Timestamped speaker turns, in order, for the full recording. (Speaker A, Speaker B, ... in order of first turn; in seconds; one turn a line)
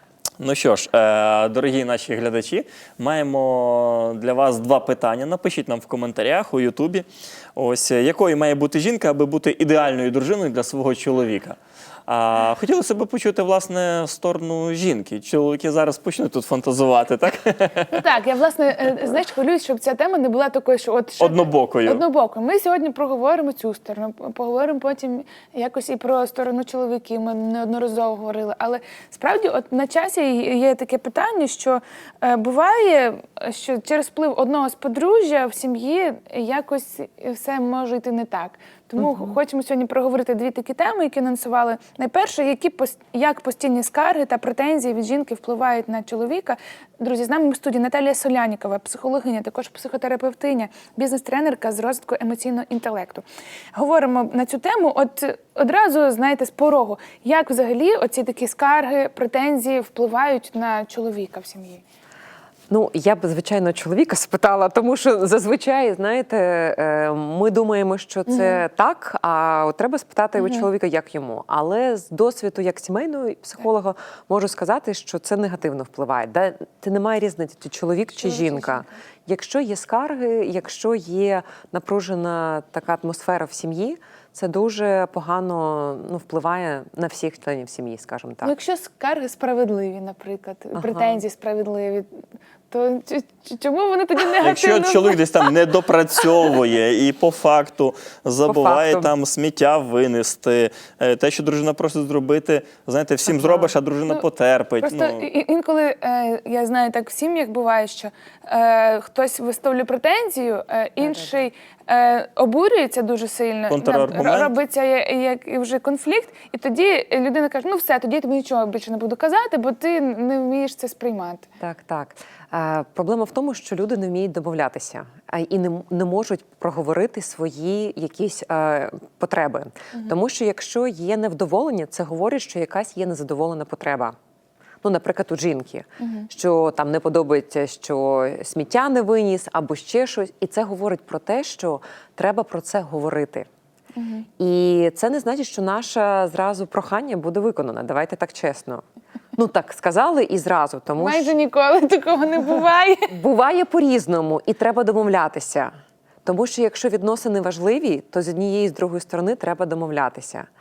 Speaker A: 0.4-18.1
Speaker B: 17.9-53.2
Speaker A: 21.2-22.1
Speaker C: 39.0-39.4
Speaker B: 53.8-61.8
Speaker C: 62.7-88.5
Speaker B: 68.3-68.6
Speaker B: 70.4-70.7
Speaker B: 78.2-78.8
Speaker B: 88.4-92.1
Speaker C: 90.7-91.2
Speaker B: 92.7-95.5
Speaker A: 94.4-105.2
Speaker C: 98.5-99.1
Speaker C: 103.3-103.7
Speaker B: 104.8-121.5
Speaker C: 111.0-111.4
Speaker A: 113.7-114.5
Speaker C: 121.6-134.2
Speaker C: 134.8-143.5
Speaker B: 136.0-136.3
Speaker B: 143.9-144.3
Speaker C: 144.4-148.8
Speaker C: 149.3-151.3
Speaker B: 151.0-153.1
Speaker C: 153.1-155.7
Speaker C: 156.2-160.5